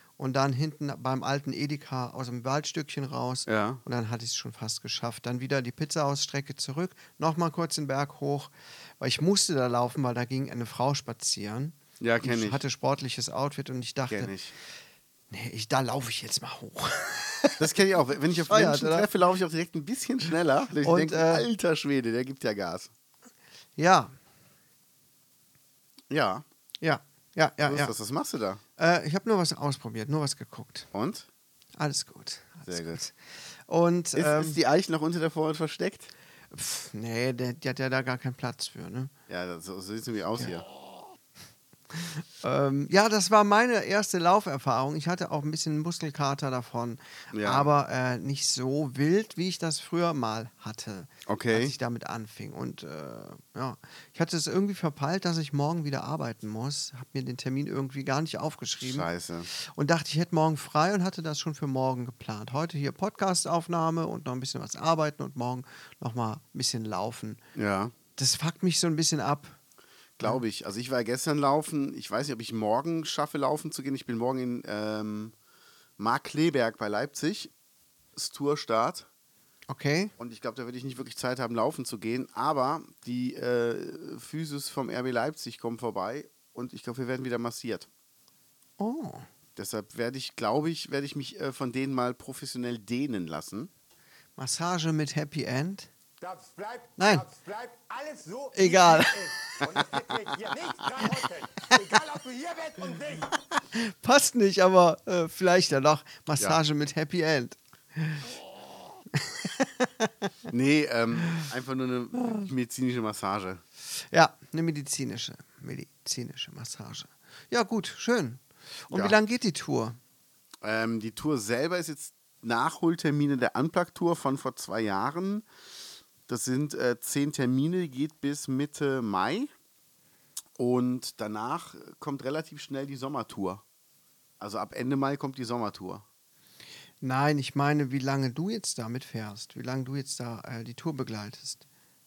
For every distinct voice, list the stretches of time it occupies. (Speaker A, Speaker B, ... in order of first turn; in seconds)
Speaker A: 0.2-14.3, 15.3-17.6, 18.4-19.1, 20.8-21.5, 23.8-24.1, 26.8-27.9, 28.8-30.9, 31.8-33.1, 33.7-34.6, 36.5-39.1, 41.9-67.4, 68.2-69.6, 79.7-80.1, 88.8-89.2, 94.4-95.9, 97.0-97.3, 98.5-99.6, 103.7-108.2, 109.1-110.1, 112.2-112.5, 114.1-120.0, 137.0-141.6
Speaker B: 3.5-3.8, 12.0-12.6, 14.1-14.5, 17.6-22.9, 26.1-26.4, 27.6-28.6, 30.9-31.3, 32.7-33.0, 34.1-36.1, 39.3-40.6, 47.3-47.7, 51.3-51.7, 58.8-59.5, 67.5-67.9, 70.2-75.3, 76.0-77.5, 78.1-79.1, 80.2-87.9, 89.5-93.7, 110.5-113.6, 118.9-119.2, 120.6-125.5, 126.3-129.5, 130.6-133.6, 134.4-136.0
Speaker C: 96.2-103.3